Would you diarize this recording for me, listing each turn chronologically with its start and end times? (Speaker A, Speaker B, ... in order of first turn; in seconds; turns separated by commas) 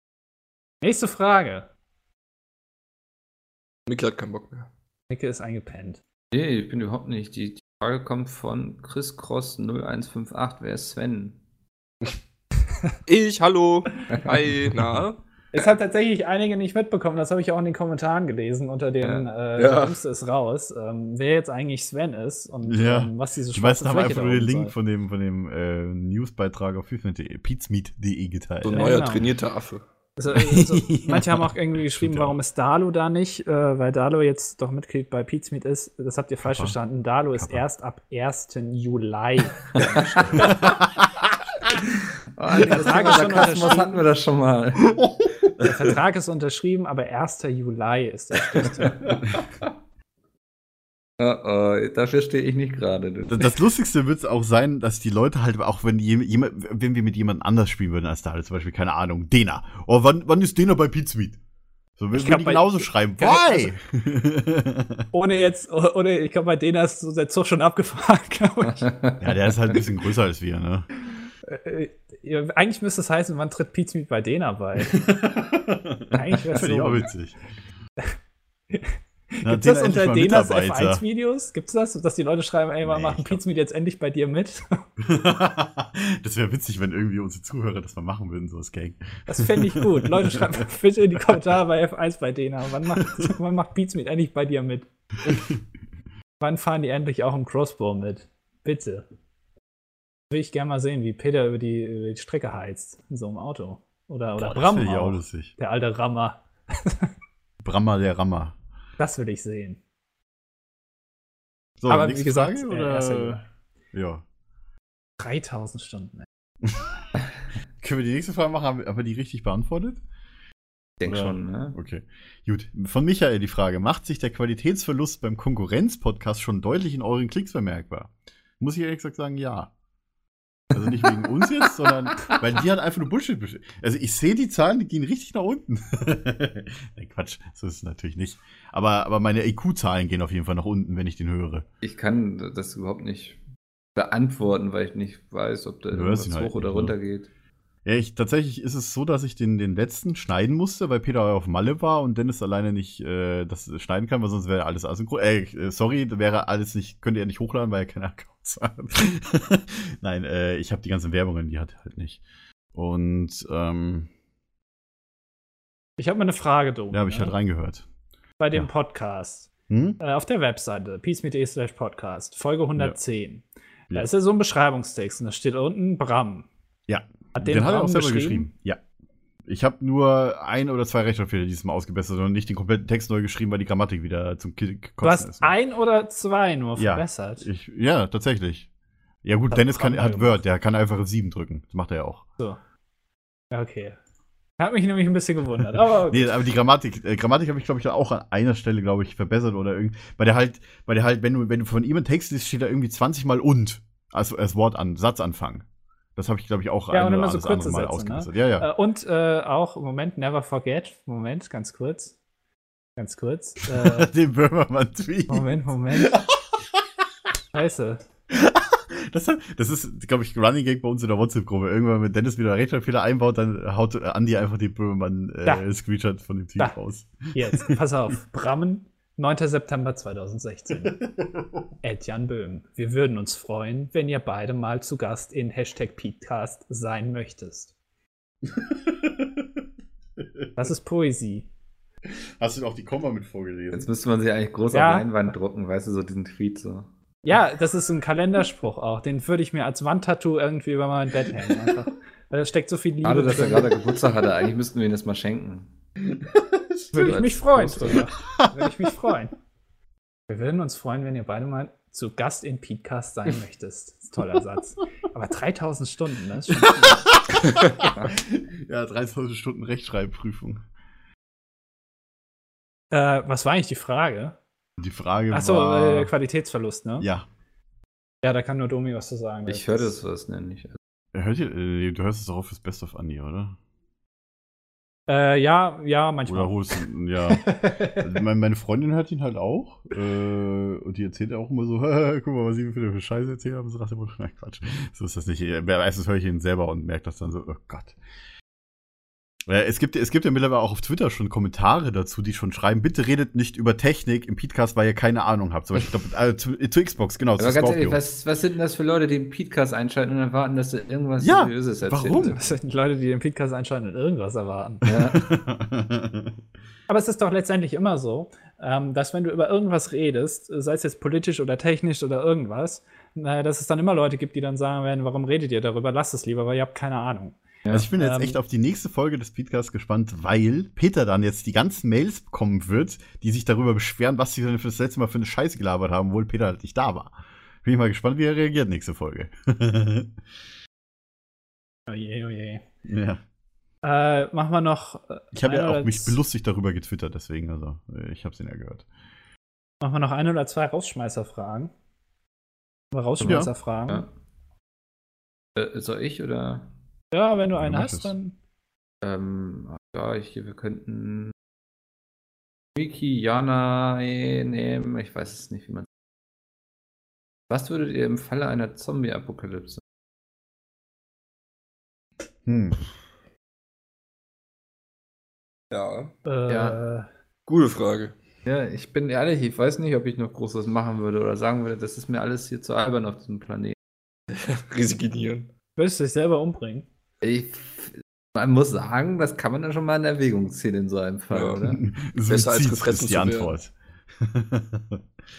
Speaker A: 0.8-1.7, Speaker B: 3.9-4.7, Speaker A: 5.1-6.0, Speaker C: 6.3-11.4, Speaker B: 13.1-15.2, Speaker D: 14.7-15.0, Speaker A: 15.5-24.7, Speaker C: 19.0-19.3, Speaker B: 19.6-20.0, Speaker D: 22.6-29.0, Speaker B: 28.6-29.8, Speaker A: 28.7-29.2, Speaker A: 30.1-40.5, Speaker D: 30.3-32.4, Speaker D: 36.4-36.8, Speaker D: 37.3-37.6, Speaker C: 39.8-40.5, Speaker D: 40.3-41.1, Speaker C: 42.4-45.0, Speaker A: 42.6-44.0, Speaker D: 45.0-45.3, Speaker A: 45.6-49.0, Speaker C: 48.9-49.2, Speaker C: 51.2-53.5, Speaker D: 53.3-61.4, Speaker D: 62.0-65.1, Speaker A: 62.1-63.7, Speaker A: 65.1-68.9, Speaker C: 68.8-69.2, Speaker D: 69.2-70.9, Speaker A: 71.5-75.0, Speaker D: 74.9-77.4, Speaker A: 76.1-77.1, Speaker A: 78.7-84.8, Speaker D: 79.4-81.0, Speaker D: 82.8-83.4, Speaker D: 85.0-90.6, Speaker A: 89.3-94.9, Speaker D: 92.9-93.3, Speaker A: 96.4-99.0, Speaker A: 100.3-107.1, Speaker D: 104.4-105.5, Speaker D: 107.6-108.5, Speaker A: 109.0-109.8, Speaker D: 111.8-113.4, Speaker A: 111.9-113.4, Speaker D: 113.9-114.2, Speaker A: 115.2-116.3, Speaker D: 116.6-117.0, Speaker D: 117.8-120.0, Speaker C: 121.0-121.8, Speaker D: 121.1-129.7, Speaker D: 130.7-141.6, Speaker C: 141.8-143.4, Speaker C: 143.9-147.3, Speaker D: 145.9-146.9, Speaker D: 147.8-162.2, Speaker D: 162.7-164.1, Speaker A: 166.0-167.3, Speaker D: 166.9-167.8, Speaker A: 168.4-176.5, Speaker D: 169.7-170.0, Speaker D: 176.9-178.8, Speaker A: 177.3-178.5, Speaker D: 179.4-185.6, Speaker A: 185.0-187.5, Speaker D: 186.8-188.7, Speaker D: 189.2-192.3, Speaker A: 189.5-190.4, Speaker A: 193.5-194.0, Speaker A: 194.6-196.4, Speaker D: 196.1-205.6, Speaker D: 206.2-208.7, Speaker A: 206.9-212.1, Speaker A: 213.0-214.1, Speaker D: 213.7-216.8, Speaker A: 215.3-216.1, Speaker A: 217.5-218.0, Speaker D: 218.3-227.8, Speaker A: 227.3-231.0, Speaker D: 231.2-231.6, Speaker A: 231.8-237.7, Speaker D: 238.4-239.6, Speaker D: 240.2-240.7, Speaker A: 240.6-241.5, Speaker D: 242.4-243.9, Speaker C: 243.7-246.9, Speaker A: 244.7-245.1, Speaker A: 247.2-253.8, Speaker D: 251.5-251.8, Speaker C: 253.0-255.7, Speaker C: 256.9-258.1, Speaker A: 256.9-259.3, Speaker A: 260.3-267.1, Speaker D: 266.8-270.6, Speaker C: 267.9-268.1, Speaker A: 272.9-274.4, Speaker D: 274.8-276.1, Speaker A: 275.3-277.1, Speaker D: 277.0-277.3, Speaker A: 278.2-279.9, Speaker C: 279.4-280.8, Speaker D: 281.1-283.6, Speaker A: 285.1-288.1, Speaker D: 286.3-297.9, Speaker D: 299.5-308.0, Speaker C: 307.4-312.4, Speaker D: 311.2-312.3, Speaker A: 312.2-315.1, Speaker C: 314.8-315.3, Speaker D: 315.1-316.4, Speaker A: 316.9-327.4, Speaker C: 327.6-327.9, Speaker D: 327.7-340.1, Speaker A: 327.9-328.4, Speaker A: 341.9-342.6, Speaker D: 342.8-343.2, Speaker A: 343.8-346.2, Speaker D: 345.3-348.9, Speaker A: 349.8-351.7, Speaker A: 352.9-354.1, Speaker C: 353.2-354.1, Speaker D: 353.2-353.5, Speaker C: 355.6-356.7, Speaker A: 357.1-358.3, Speaker D: 357.6-358.1, Speaker C: 359.0-361.3, Speaker C: 362.7-365.9, Speaker C: 367.5-369.8, Speaker D: 372.4-372.8, Speaker B: 375.7-376.1, Speaker A: 376.2-377.1, Speaker C: 376.5-376.8, Speaker B: 377.4-378.1, Speaker C: 378.4-383.8, Speaker B: 384.3-385.5, Speaker A: 385.8-386.9, Speaker C: 387.2-391.8, Speaker B: 391.3-391.6, Speaker D: 391.6-395.0, Speaker B: 392.3-393.6